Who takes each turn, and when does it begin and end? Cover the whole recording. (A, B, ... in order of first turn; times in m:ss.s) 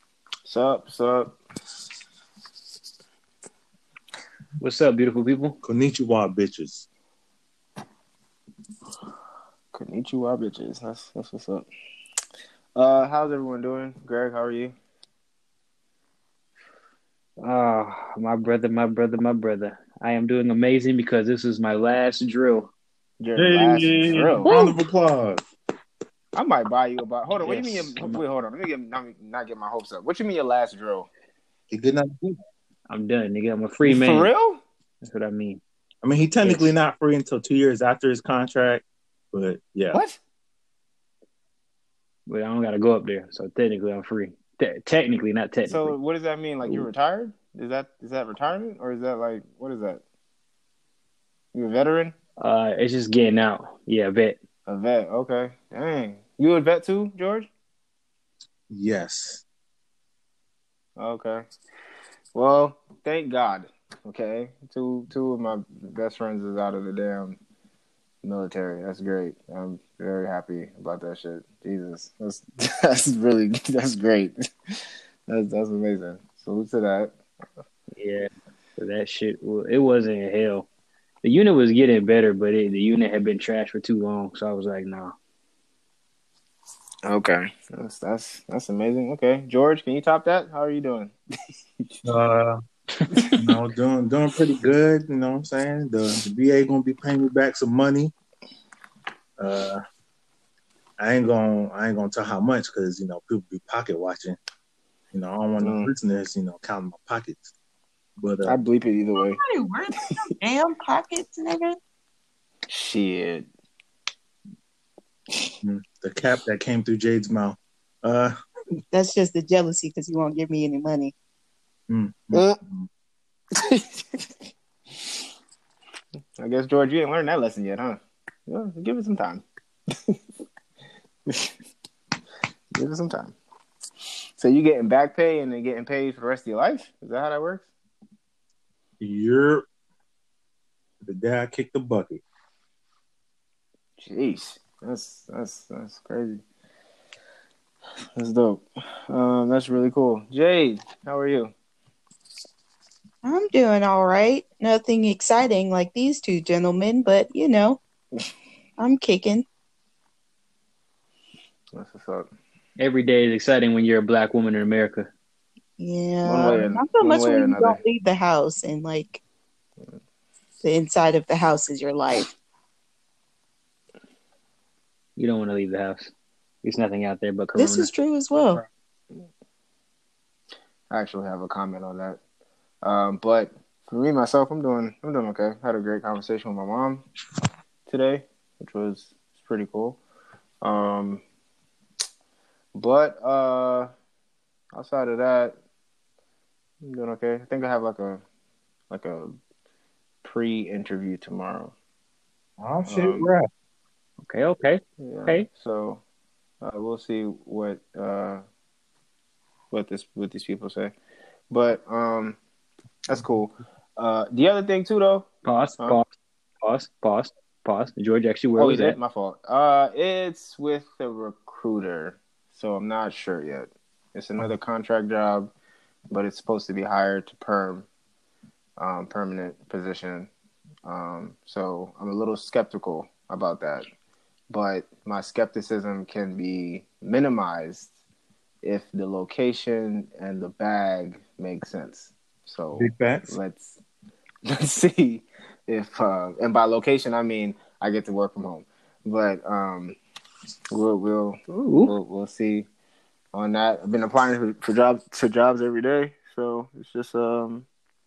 0:00.4-0:01.4 A
0:04.6-0:05.6 B
0:05.6-0:06.8 C
0:09.7-0:11.7 A
0:12.7-0:14.7 A
0:17.4-0:22.7 B
0:23.2-0:24.5 A
0:23.4-0:25.4 C
0:26.3-0:31.1 A
0:27.4-0:28.2 B
0:31.7-0:32.4 C
0:32.9-0:34.3 B
0:33.8-0:34.6 A
0:35.0-0:35.6 B
0:36.0-0:40.0 C
0:36.4-0:36.7 B
0:39.9-0:40.2 A
0:42.3-0:46.0 B
0:45.6-0:50.0 A
0:51.5-0:52.1 A
0:52.4-0:54.4 B
0:54.7-0:57.5 A
0:58.7-0:59.4 C
1:01.0-1:01.4 A
1:02.3-1:07.4 A
1:08.2-1:14.4 A
1:15.3-1:17.1 A
1:17.9-1:20.7 B
1:21.2-1:25.1 B
1:27.0-1:31.1 A
1:32.0-1:32.6 C
1:33.1-1:33.5 A
1:33.4-1:38.1 C
1:39.4-1:39.8 C
1:41.0-1:44.4 C
1:45.1-1:47.5 C
1:45.6-1:45.9 A
1:48.2-1:48.5 C
1:48.4-1:49.4 A
1:49.4-1:51.8 D
1:52.7-1:53.5 A
1:55.6-1:58.4 C
1:58.9-2:01.1 D
2:01.9-2:02.9 C
2:02.3-2:02.6 A
2:03.6-2:04.3 A
2:06.4-2:09.4 A
2:11.3-2:11.5 A
2:12.7-2:13.4 A
2:14.4-2:17.7 A
2:19.0-2:19.6 C
2:21.0-2:22.2 C
2:24.0-2:26.4 A
2:28.2-2:31.5 A
2:33.2-2:37.8 D
2:38.8-2:39.4 D
2:41.7-2:42.3 A
2:42.8-2:45.1 B
2:45.8-2:49.2 D
2:46.2-2:47.8 A
2:50.6-2:52.3 D
2:55.2-2:56.1 B
2:56.6-2:57.9 B
2:57.5-2:58.6 D
3:00.9-3:02.2 A
3:02.8-3:07.0 A
3:07.9-3:10.0 A
3:10.6-3:11.2 A
3:12.7-3:13.9 A
3:14.7-3:15.6 A
3:16.8-3:18.2 A
3:18.9-3:19.4 A
3:20.2-3:21.7 A
3:22.6-3:23.5 C
3:22.8-3:23.3 A
3:24.2-3:25.4 B
3:25.0-3:26.0 A
3:26.6-3:28.4 A
3:29.7-3:30.9 A
3:31.5-3:32.4 A
3:33.1-3:35.3 A
3:35.4-3:36.1 B
3:36.6-3:39.0 B
3:38.6-3:45.5 A
3:46.1-3:47.9 A
3:48.8-3:50.3 A
3:50.8-3:53.8 A
3:54.5-3:57.9 A
3:58.6-4:03.8 A
4:02.7-4:03.4 C
4:04.4-4:10.0 A
4:10.7-4:12.7 A
4:11.5-4:11.9 B
4:13.3-4:17.7 A